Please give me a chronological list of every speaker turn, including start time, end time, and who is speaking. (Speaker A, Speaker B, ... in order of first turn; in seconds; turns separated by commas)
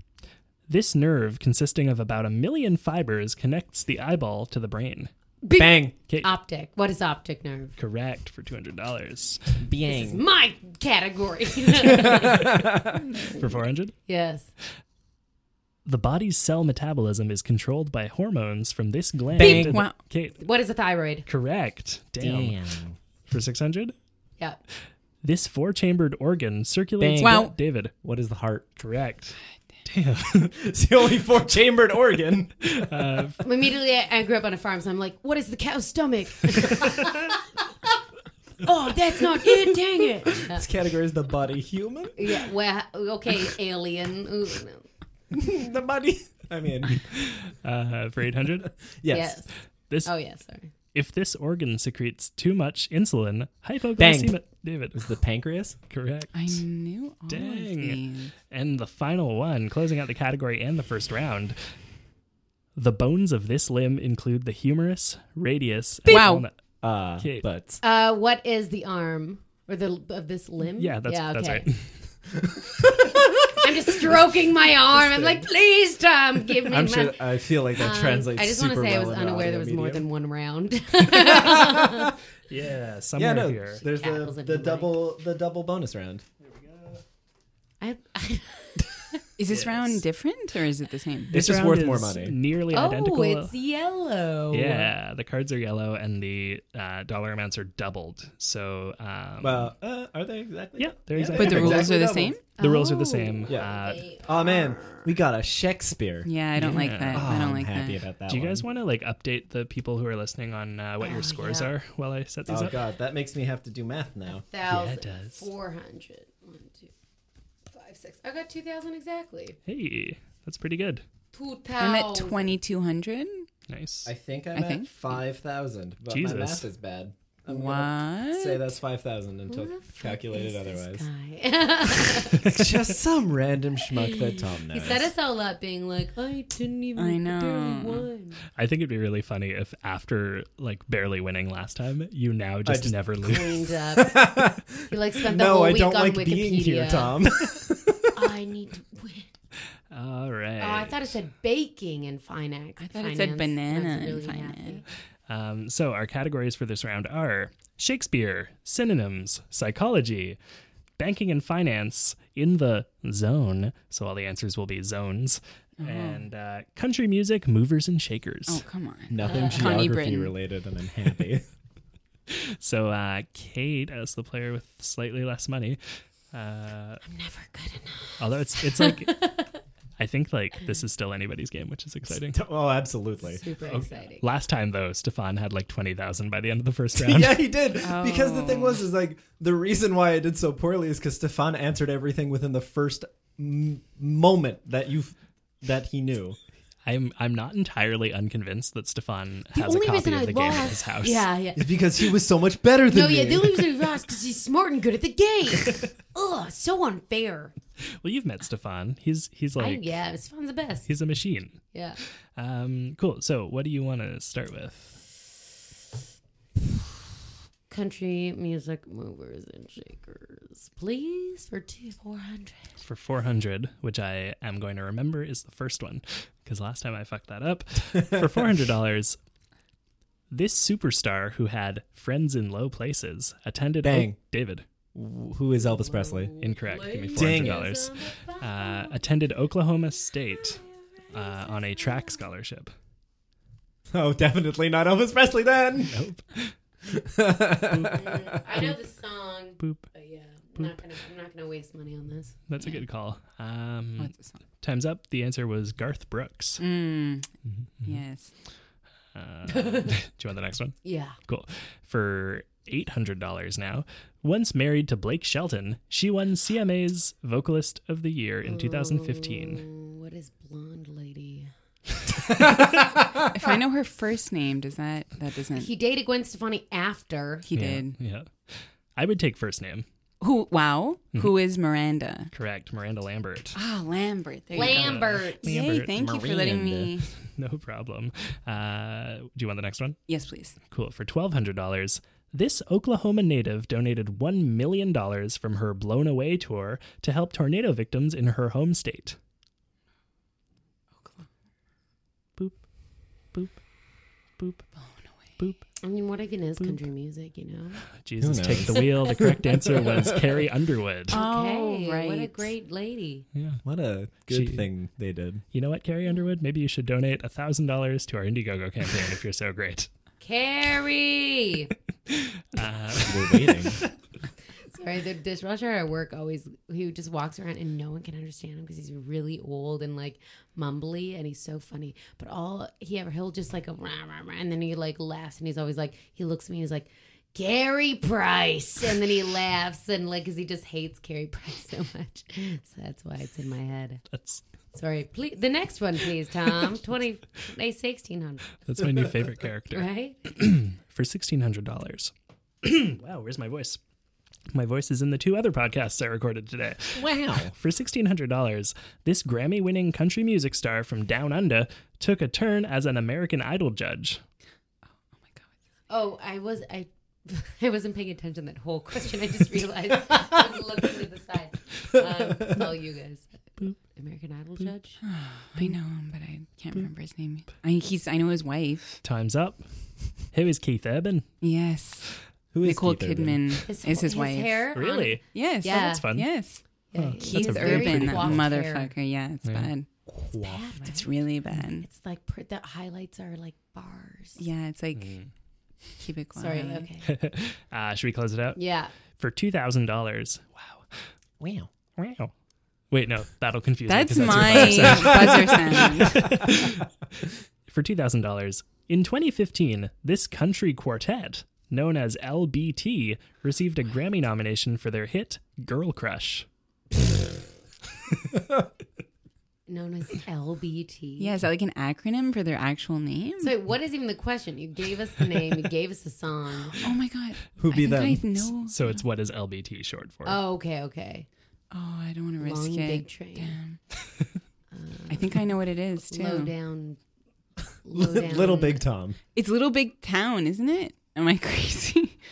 Speaker A: 0.7-5.1, Speaker B: 5.4-7.7, Speaker C: 5.6-6.0, Speaker A: 7.8-9.6, Speaker C: 9.6-10.2, Speaker B: 9.9-12.5, Speaker C: 12.0-13.0, Speaker A: 13.4-13.9, Speaker B: 14.1-14.5, Speaker A: 15.8-20.4, Speaker C: 19.4-19.8, Speaker B: 19.4-19.7, Speaker D: 19.5-20.0, Speaker B: 20.4-21.3, Speaker A: 21.3-22.6, Speaker C: 22.2-23.0, Speaker A: 23.3-23.9, Speaker A: 25.2-27.9, Speaker C: 27.0-28.7, Speaker D: 27.2-27.5, Speaker A: 28.8-30.5, Speaker C: 30.4-32.9, Speaker A: 32.7-33.4, Speaker B: 33.4-37.4, Speaker B: 38.6-40.7, Speaker C: 40.3-42.2, Speaker B: 42.2-44.9, Speaker C: 45.3-47.0, Speaker A: 46.9-48.8, Speaker C: 49.0-49.4, Speaker B: 49.1-49.5, Speaker A: 49.9-50.1, Speaker B: 50.0-50.7, Speaker A: 50.9-55.1, Speaker C: 54.0-54.4, Speaker C: 55.0-55.8, Speaker A: 55.9-56.6, Speaker D: 56.3-58.3, Speaker A: 57.3-61.6, Speaker A: 62.8-66.5, Speaker D: 66.1-66.5, Speaker C: 66.8-67.8, Speaker A: 67.2-67.5, Speaker B: 67.8-71.7, Speaker A: 70.8-72.0, Speaker C: 72.6-73.3, Speaker B: 73.5-82.1, Speaker C: 76.7-80.0, Speaker C: 81.1-82.1, Speaker A: 82.5-83.8, Speaker C: 83.2-86.2, Speaker B: 83.8-85.0, Speaker B: 87.8-89.2, Speaker D: 89.4-91.3, Speaker A: 89.5-90.0, Speaker C: 91.3-92.4, Speaker A: 91.3-93.5, Speaker B: 92.7-94.9, Speaker A: 94.5-99.7, Speaker C: 99.4-102.4, Speaker A: 100.8-102.0, Speaker D: 101.3-102.4, Speaker A: 102.6-104.1, Speaker B: 102.6-105.1, Speaker C: 103.5-108.7, Speaker D: 106.2-108.0, Speaker A: 106.5-107.5, Speaker A: 108.3-112.8, Speaker B: 111.0-111.7, Speaker C: 112.5-114.5, Speaker B: 114.5-116.9, Speaker A: 114.7-115.4, Speaker B: 117.7-119.6, Speaker A: 119.7-121.0, Speaker B: 121.3-122.5, Speaker D: 121.8-123.5, Speaker A: 123.7-124.1, Speaker C: 124.1-131.1, Speaker D: 124.5-124.9, Speaker A: 126.1-126.7, Speaker D: 127.5-128.6, Speaker B: 129.5-132.5, Speaker C: 132.3-135.1, Speaker B: 134.0-138.4, Speaker D: 137.0-138.1, Speaker A: 138.6-143.7, Speaker C: 142.7-143.0, Speaker B: 143.2-147.2, Speaker C: 144.0-148.2, Speaker B: 148.1-149.3, Speaker A: 149.9-151.1, Speaker B: 150.6-154.8, Speaker D: 152.8-154.8, Speaker A: 155.3-160.4, Speaker A: 161.0-168.6, Speaker D: 165.8-166.2, Speaker D: 168.5-170.3, Speaker C: 169.1-171.4, Speaker B: 169.2-169.7, Speaker A: 172.3-175.8, Speaker A: 176.3-177.0, Speaker B: 177.1-179.6, Speaker A: 178.2-179.3, Speaker A: 180.0-182.4, Speaker C: 182.3-183.4, Speaker B: 183.2-184.2, Speaker A: 183.6-187.4, Speaker C: 187.0-196.4, Speaker D: 187.8-188.8, Speaker A: 196.8-201.2, Speaker B: 199.5-201.8, Speaker C: 201.6-203.8, Speaker B: 202.9-207.5, Speaker A: 208.0-209.9, Speaker B: 209.6-210.9, Speaker A: 210.9-215.0, Speaker B: 211.7-212.0, Speaker B: 217.7-222.7, Speaker A: 222.8-229.2, Speaker A: 230.3-234.7, Speaker C: 233.8-234.2, Speaker C: 234.9-236.3, Speaker B: 235.7-238.9, Speaker A: 236.4-242.7, Speaker C: 237.1-237.6, Speaker B: 240.4-242.2, Speaker C: 243.9-246.0, Speaker A: 245.9-246.5, Speaker C: 246.8-248.4, Speaker A: 247.7-248.0, Speaker B: 247.8-252.3, Speaker A: 249.6-249.8, Speaker A: 252.5-256.6, Speaker D: 254.0-254.3, Speaker D: 256.6-257.3, Speaker D: 257.8-258.3, Speaker A: 259.1-269.6, Speaker B: 259.5-259.9, Speaker B: 260.8-261.2, Speaker B: 268.4-271.5, Speaker C: 272.3-273.1, Speaker D: 273.2-275.7, Speaker B: 275.5-277.5, Speaker D: 277.5-278.0, Speaker A: 277.5-279.9, Speaker D: 280.2-282.3, Speaker A: 282.3-283.6, Speaker D: 283.6-287.1, Speaker B: 284.5-285.6, Speaker A: 284.6-286.0, Speaker C: 285.9-287.0, Speaker A: 287.3-290.0, Speaker D: 290.1-290.6, Speaker A: 290.7-299.2, Speaker A: 302.4-302.6, Speaker A: 303.3-303.6, Speaker A: 304.4-304.8, Speaker B: 305.8-307.8, Speaker A: 308.0-311.2, Speaker C: 308.2-310.2, Speaker B: 309.2-309.9, Speaker B: 311.1-313.3, Speaker D: 311.1-312.4, Speaker A: 313.4-313.6, Speaker C: 313.6-315.4, Speaker A: 314.3-314.7, Speaker A: 315.5-319.9, Speaker B: 320.2-321.7, Speaker A: 322.1-323.8, Speaker C: 323.0-323.8, Speaker B: 324.7-344.0, Speaker A: 344.1-344.4, Speaker B: 344.7-348.5, Speaker A: 348.6-352.1, Speaker B: 349.7-350.2, Speaker A: 352.6-353.8, Speaker A: 354.5-364.2, Speaker C: 356.9-357.5, Speaker B: 365.9-375.0, Speaker D: 375.0-379.0, Speaker A: 379.0-379.7, Speaker A: 380.3-381.3, Speaker D: 381.4-384.6, Speaker C: 382.5-383.6, Speaker B: 383.6-386.1, Speaker A: 384.8-386.3, Speaker D: 385.3-386.6, Speaker B: 386.9-388.9, Speaker A: 387.0-388.4, Speaker D: 387.2-389.9, Speaker A: 389.4-389.7, Speaker B: 390.3-391.1, Speaker D: 390.8-391.9, Speaker B: 391.6-394.4, Speaker D: 394.4-395.2, Speaker A: 394.9-395.3, Speaker D: 396.0-396.9, Speaker B: 396.4-397.1, Speaker A: 397.0-398.6, Speaker B: 398.6-398.9, Speaker A: 399.2-400.9, Speaker C: 401.4-401.7, Speaker A: 402.0-402.3, Speaker A: 402.9-406.9, Speaker D: 403.9-406.2, Speaker C: 404.8-405.4, Speaker A: 407.7-416.5, Speaker B: 419.7-421.4, Speaker D: 421.2-423.5, Speaker B: 423.4-426.8, Speaker D: 426.8-429.0, Speaker C: 427.6-428.5, Speaker A: 428.7-430.4, Speaker B: 430.2-431.3, Speaker D: 431.7-433.8, Speaker B: 432.4-433.6, Speaker B: 434.7-435.5, Speaker D: 435.1-436.5, Speaker B: 436.1-437.0, Speaker B: 437.8-438.8, Speaker C: 437.9-439.2, Speaker D: 439.3-442.2